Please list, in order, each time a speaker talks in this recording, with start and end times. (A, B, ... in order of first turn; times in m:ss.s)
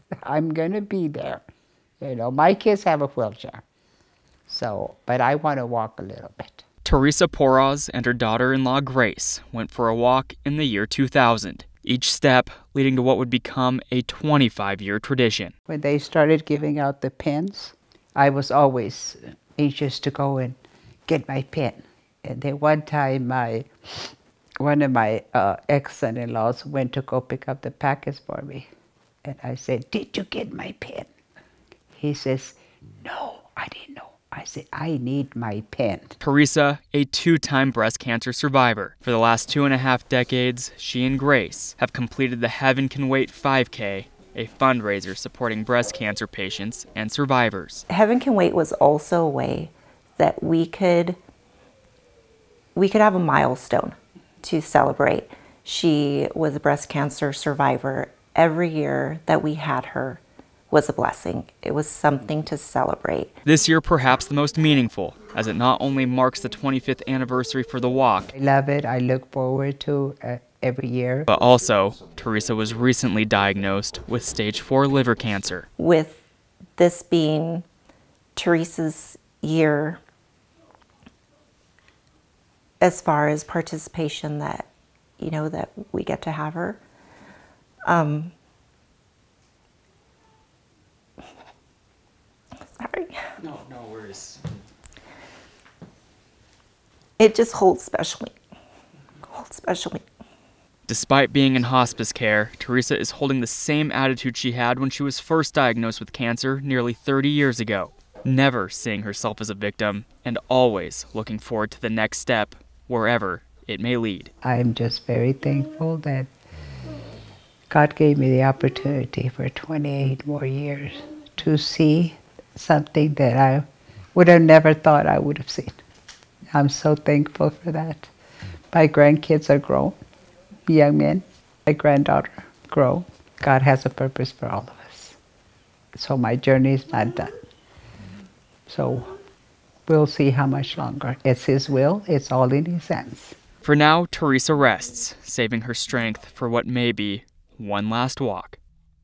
0:00.2-0:01.4 A
0:02.0-0:03.6 A
0:04.5-0:06.6 A
0:06.8-0:15.5 B
0:15.7-0:28.7 A
0:29.2-0:31.1 A
0:31.9-0:36.2 A
0:36.2-0:47.8 B
0:47.9-0:51.2 C
0:52.7-1:03.3 C
1:03.4-1:08.3 B
1:08.3-1:11.3 A
1:11.3-1:15.7 B
1:15.8-1:16.2 C
1:16.8-1:17.6 C
1:18.4-1:20.0 C
1:22.8-1:24.7 C
1:25.2-1:26.8 C
1:27.8-1:28.3 C
1:32.7-1:33.3 C
1:33.4-1:34.4 B
1:37.2-1:38.4 C
1:39.2-1:40.0 C
1:40.9-1:54.3 B
1:54.4-1:56.3 A
1:57.7-2:05.8 A
2:06.5-2:08.1 A
2:08.7-2:10.0 A
2:10.7-2:15.2 A
2:15.9-2:17.3 A
2:18.7-2:19.1 A
2:19.9-2:23.4 A
2:23.6-2:28.6 B